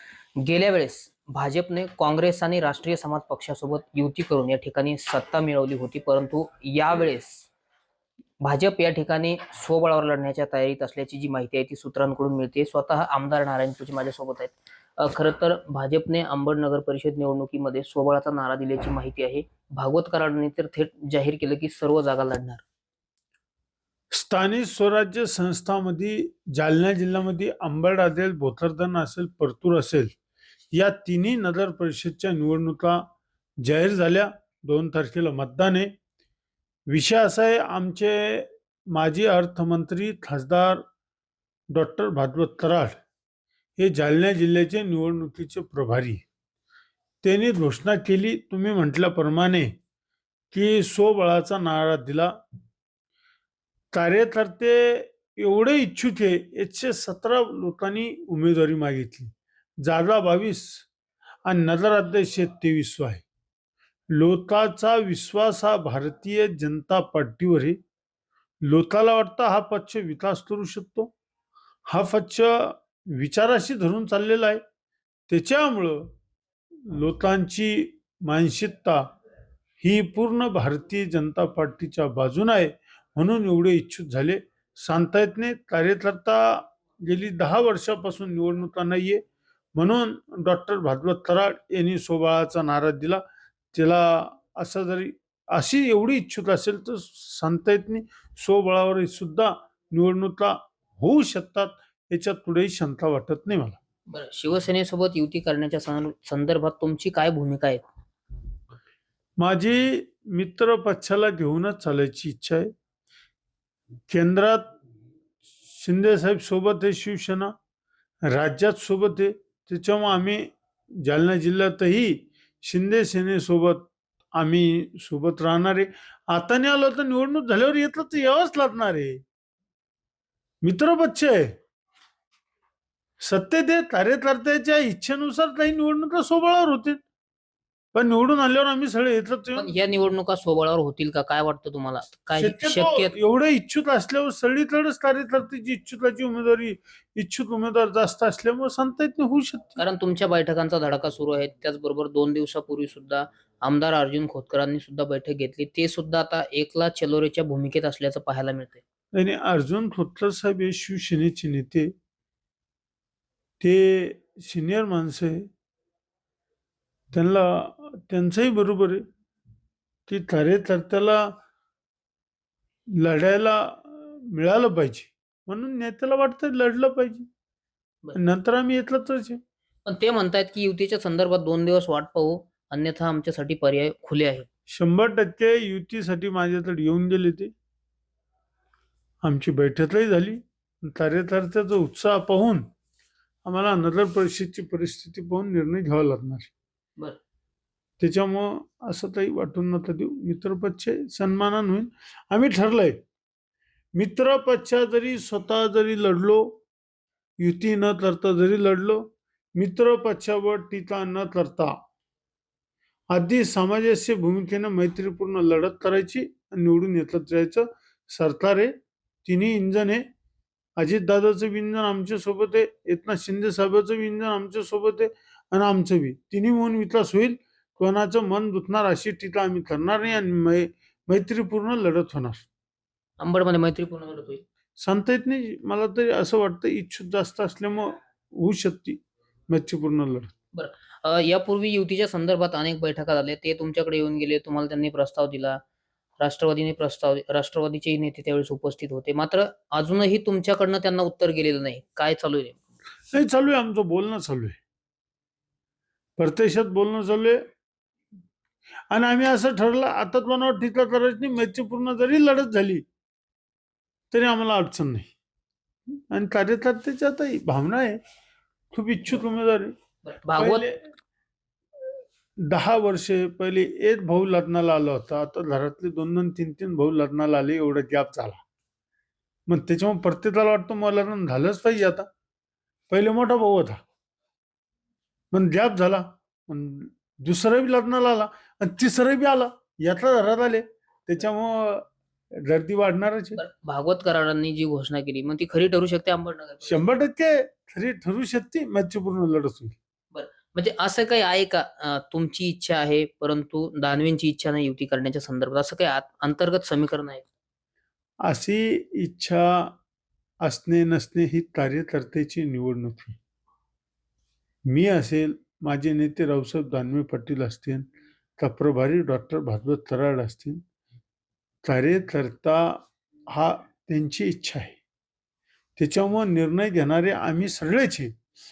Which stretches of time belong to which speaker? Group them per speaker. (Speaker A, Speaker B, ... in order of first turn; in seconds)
Speaker A: 0.4-7.5, 8.4-22.6, 104.1-107.8, 139.6-143.1, 149.8-158.8, 179.9-184.5, 233.2-234.4, 240.5-245.6, 246.2-252.6, 270.0-270.6, 293.4-296.9, 300.1-307.3
Speaker B: 24.1-30.1, 30.7-33.0, 33.6-35.9, 36.9-40.8, 41.7-43.0, 43.8-46.2, 47.2-49.7, 50.5-52.3, 53.9-60.9, 61.5-63.2, 64.1-67.8, 68.6-71.1, 71.9-74.6, 75.3-76.1, 76.8-79.0, 79.8-89.2, 89.8-93.2, 93.7-103.8, 109.4-112.7, 114.1-114.7, 115.7-117.5, 118.3-129.2, 130.6-131.5, 133.2-137.0, 137.9-139.7, 142.4-149.8, 159.1-161.9, 163.6-165.5, 167.1-169.0, 170.1-171.3, 172.9-177.3, 178.2-179.4, 184.7-187.5, 189.2-192.7, 193.4-196.5, 198.0-203.0, 203.9-206.6, 207.4-211.7, 213.1-218.7, 219.2-220.0, 220.8-232.5, 234.8-240.3, 253.1-254.6, 256.2-257.4, 258.9-262.9, 264.1-265.1, 266.1-268.0, 268.7-269.7, 270.4-270.8, 272.4-278.4, 279.5-282.1, 282.9-283.8, 285.3-291.9, 292.4-293.4, 296.6-299.8, 308.2-309.8, 310.4-313.2, 314.7-317.9, 318.4-320.6, 321.6-324.8, 325.8-328.1